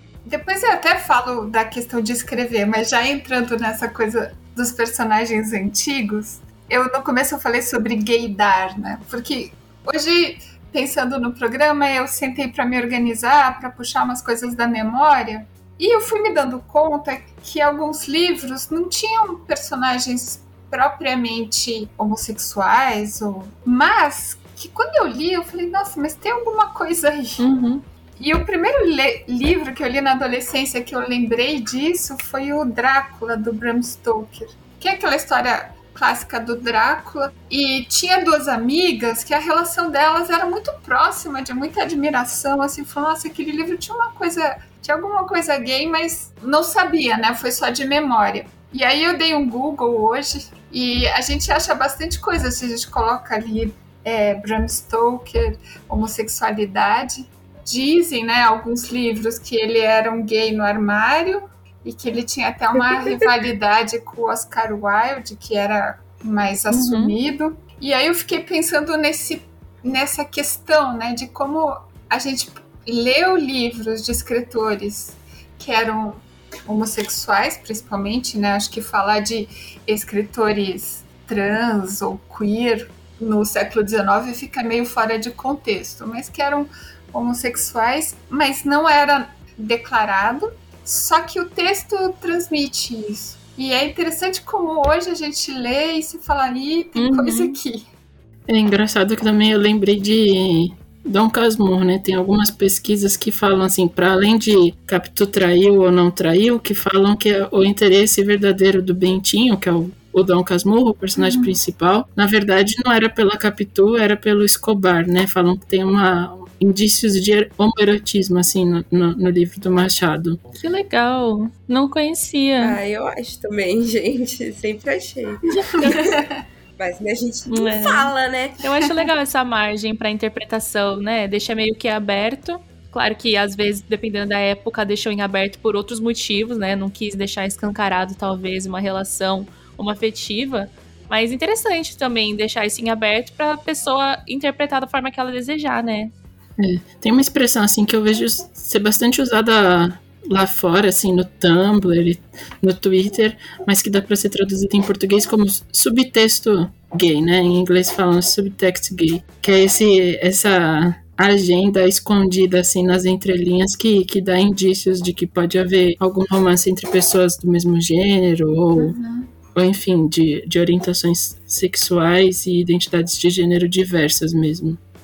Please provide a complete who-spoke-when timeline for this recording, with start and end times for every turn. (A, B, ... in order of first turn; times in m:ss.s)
0:00.3-0:27.5 A
0:27.4-0:27.8 B
0:28.2-1:37.9 A
1:06.7-1:07.2 B
1:37.0-1:37.4 C
1:38.5-2:00.4 C
1:51.2-1:51.5 A
2:00.6-2:02.8 B
2:02.6-2:06.2 D
2:05.7-2:06.4 A
2:06.8-2:08.6 D
2:07.5-2:26.1 B
2:26.6-2:49.0 C
2:48.8-2:49.3 A
2:49.6-2:54.8 C